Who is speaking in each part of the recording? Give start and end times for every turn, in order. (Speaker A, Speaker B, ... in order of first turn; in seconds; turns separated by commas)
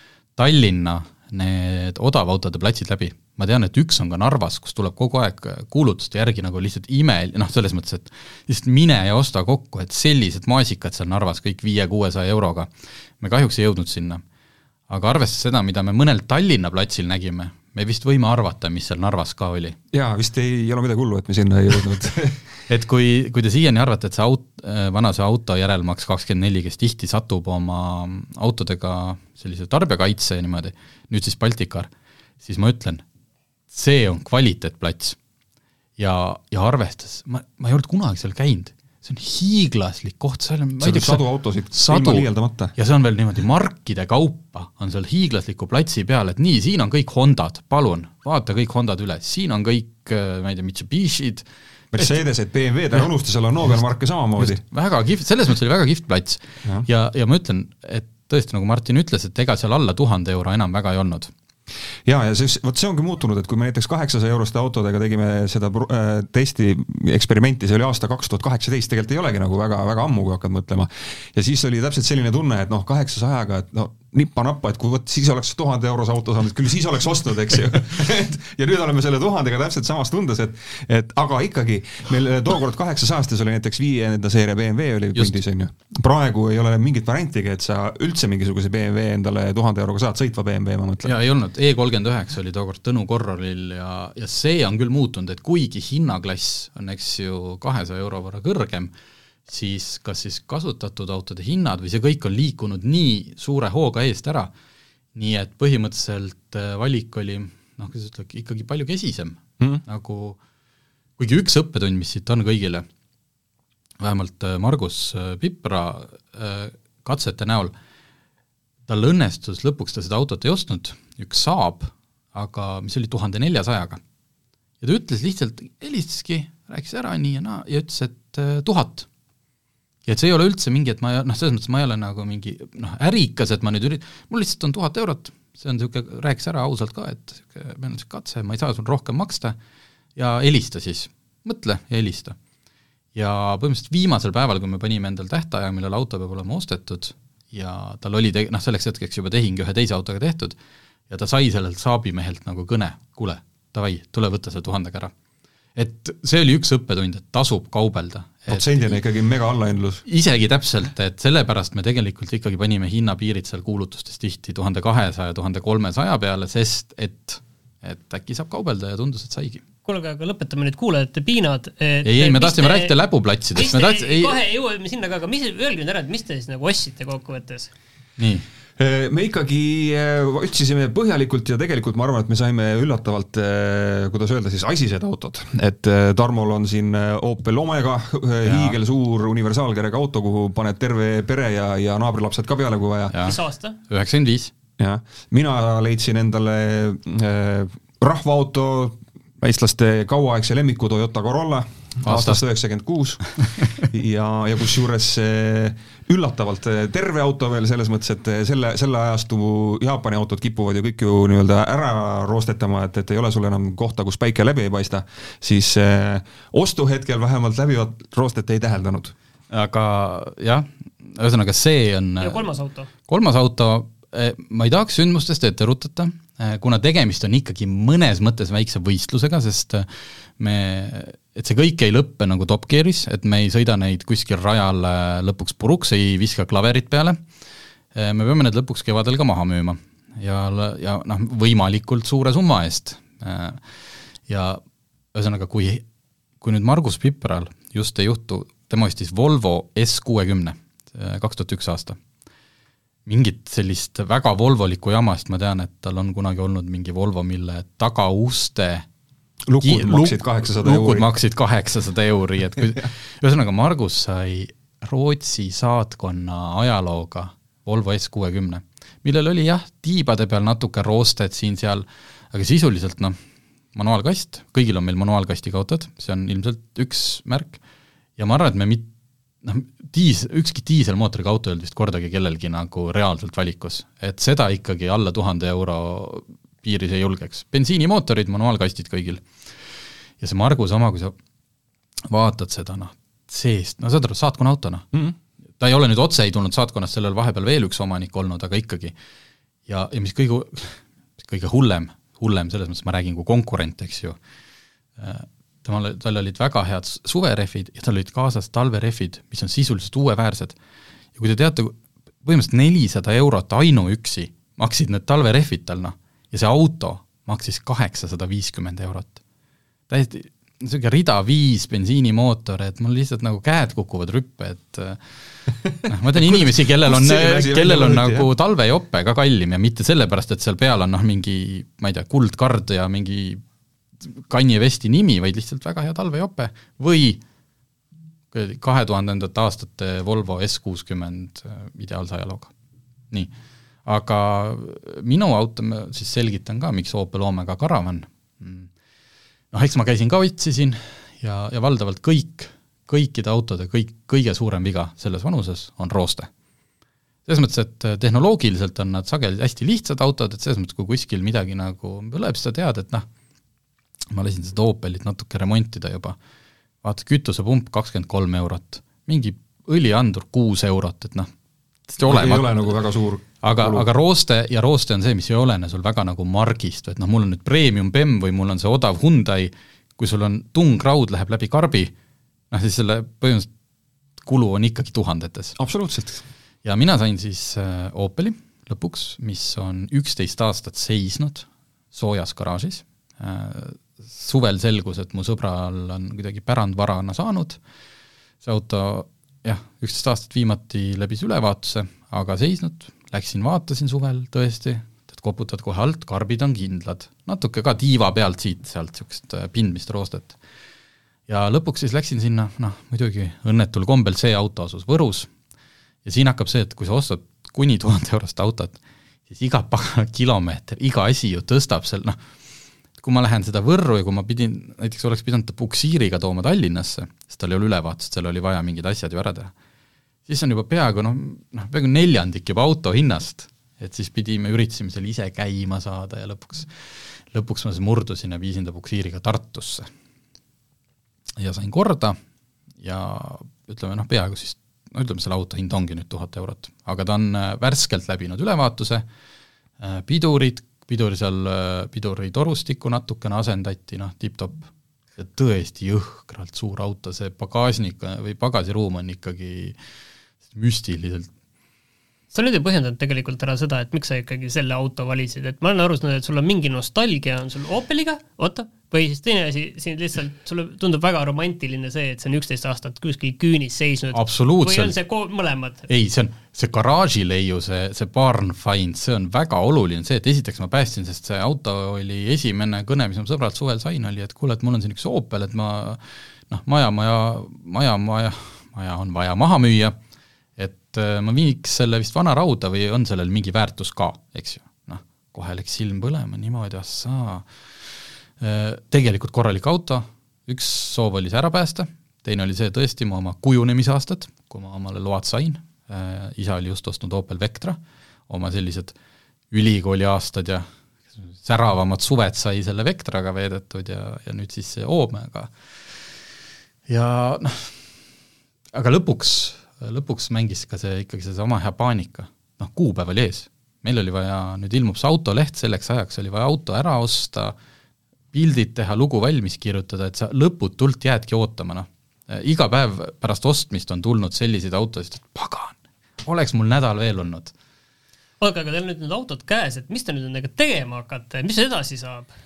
Speaker A: 0.4-12.7, Speaker A: 13.2-14.2, Speaker A: 14.9-19.8, Speaker B: 19.9-22.4, Speaker A: 22.7-31.9, Speaker A: 32.4-33.0, Speaker A: 33.7-35.2, Speaker A: 36.0-52.2, Speaker B: 40.8-42.7, Speaker B: 51.9-54.6, Speaker A: 54.4-61.3, Speaker B: 62.0-91.2, Speaker A: 91.0-98.9, Speaker A: 99.5-104.5, Speaker A: 105.2-110.4, Speaker A: 111.2-112.8, Speaker A: 114.0-117.7, Speaker A: 118.9-124.0, Speaker A: 124.8-129.1, Speaker A: 130.1-139.6, Speaker A: 140.2-142.4, Speaker A: 143.2-150.6, Speaker A: 151.1-155.1, Speaker A: 155.8-159.0, Speaker B: 158.5-160.0, Speaker A: 160.1-169.6, Speaker C: 169.8-172.9, Speaker A: 172.0-174.4, Speaker C: 173.6-177.7, Speaker A: 178.2-178.5, Speaker B: 178.8-193.2, Speaker A: 188.4-188.8, Speaker A: 193.1-194.5, Speaker C: 193.2-193.8, Speaker B: 194.8-219.2, Speaker A: 202.0-202.4, Speaker A: 219.5-222.5, Speaker C: 222.2-222.9, Speaker A: 223.1-237.2, Speaker A: 237.9-243.7, Speaker A: 244.3-244.6, Speaker A: 245.1-245.8, Speaker A: 246.4-252.0, Speaker A: 253.1-258.9, Speaker B: 259.5-261.2, Speaker A: 259.6-273.2, Speaker A: 273.7-277.6, Speaker A: 278.2-278.9, Speaker A: 279.4-289.4, Speaker A: 290.2-291.1, Speaker A: 292.1-294.9, Speaker A: 295.6-298.9, Speaker A: 299.7-304.2, Speaker A: 305.0-310.6, Speaker A: 311.2-319.2, Speaker A: 319.9-333.4, Speaker B: 326.1-328.3, Speaker A: 334.0-337.2, Speaker A: 338.3-342.5, Speaker A: 343.9-348.7, Speaker A: 349.5-356.3, Speaker A: 357.3-363.1, Speaker A: 364.1-366.2, Speaker A: 366.8-371.3, Speaker A: 371.9-372.6, Speaker B: 372.1-373.9, Speaker A: 373.4-381.9, Speaker A: 382.5-383.5, Speaker A: 384.2-385.6, Speaker B: 385.6-386.2, Speaker A: 386.6-397.6, Speaker A: 398.4-410.4, Speaker A: 411.3-415.3, Speaker A: 416.1-422.2, Speaker A: 423.0-429.5, Speaker A: 430.3-439.9, Speaker A: 441.4-442.2, Speaker A: 442.8-449.1, Speaker A: 449.8-459.8, Speaker A: 460.5-461.3, Speaker C: 462.3-475.9, Speaker A: 474.1-474.9, Speaker A: 475.9-490.0, Speaker A: 490.6-497.5, Speaker A: 498.4-507.8, Speaker A: 508.3-508.9, Speaker A: 509.5-515.5, Speaker A: 516.9-517.8, Speaker A: 518.7-527.5, Speaker A: 528.3-537.5, Speaker C: 538.4-542.3